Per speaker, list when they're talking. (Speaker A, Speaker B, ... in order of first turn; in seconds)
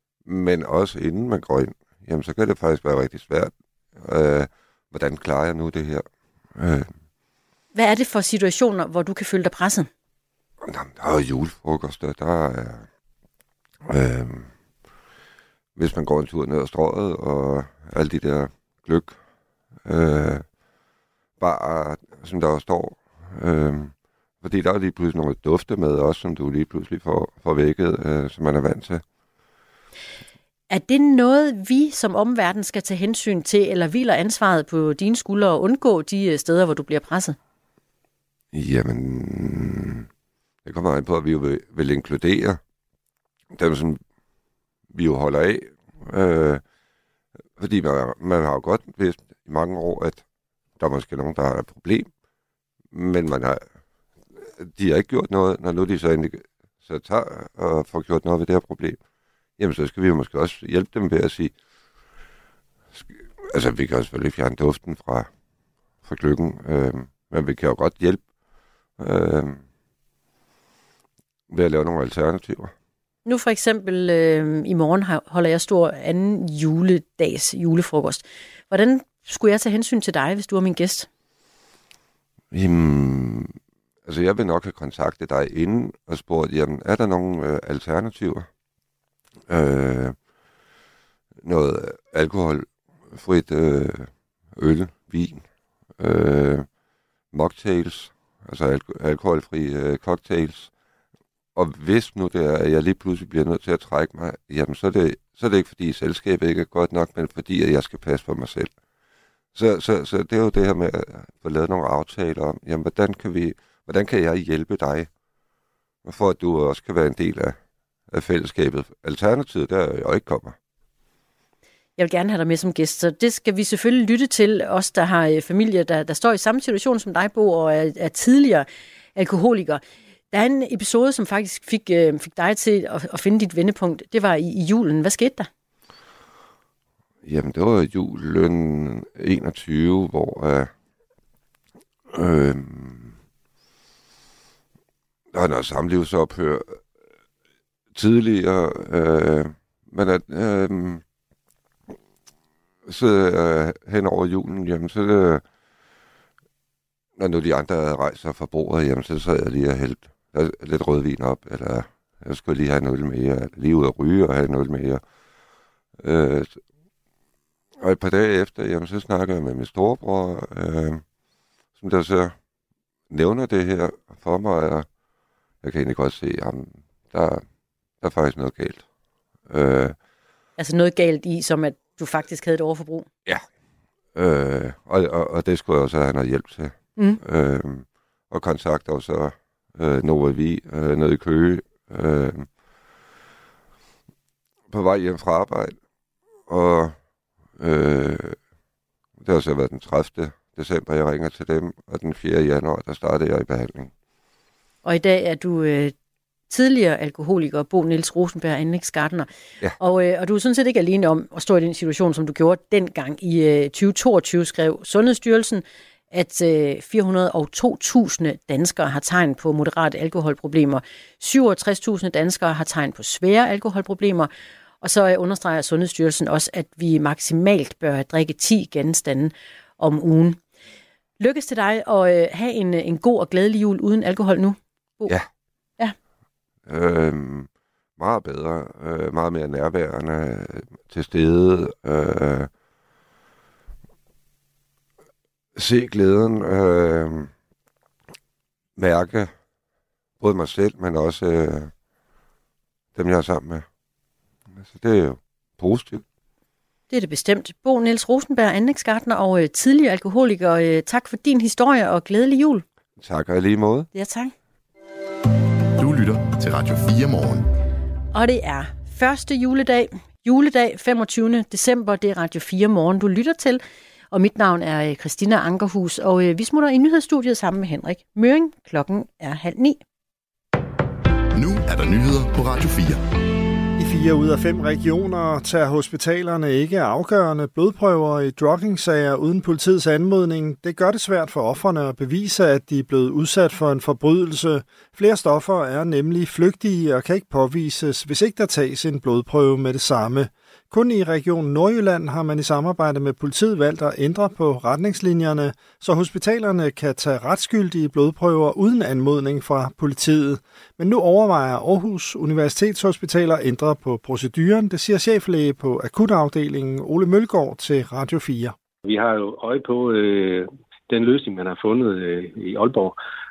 Speaker A: 0.3-6.9, 10.6-12.9, 13.9-14.5, 15.8-19.2, 19.8-20.5, 21.4-29.0, 38.5-40.1, 40.6-42.6, 43.5-44.0, 44.9-46.6, 47.6-50.2, 50.8-52.1, 52.9-53.7, 54.3-59.0, 59.6-61.5, 63.0-65.3, 66.0-68.3, 69.0-69.6, 71.5-72.7, 82.5-88.5, 89.5-90.2, 91.4-96.7, 97.3-100.7, 101.5-108.8, 109.5-115.1, 116.0-117.6, 118.1-120.6, 137.2-140.7, 142.1-143.2, 145.3-146.8, 147.9-151.0, 152.9-155.4, 157.2-165.0, 166.0-166.6, 167.8-171.1, 171.8-172.4, 173.1-174.9, 175.6-177.4, 178.0-178.8, 179.5-180.0, 184.1-192.5, 194.7-195.8, 196.5-197.0, 197.6-198.4, 199.2-203.9, 236.7-242.5, 245.6-247.3, 248.8-249.3, 250.2-251.7, 252.9-253.7, 254.6-256.0, 263.0-263.9
Speaker B: 7.7-9.9, 30.7-37.4, 73.3-81.1, 122.0-135.5, 180.6-183.1, 204.8-205.9, 206.5-224.3, 224.8-230.4, 231.2-235.2, 256.9-262.6, 263.9-264.3, 268.1-279.8
Speaker C: 265.8-267.5, 281.3-283.0
Speaker D: 283.8-318.6
Speaker E: 318.8-323.0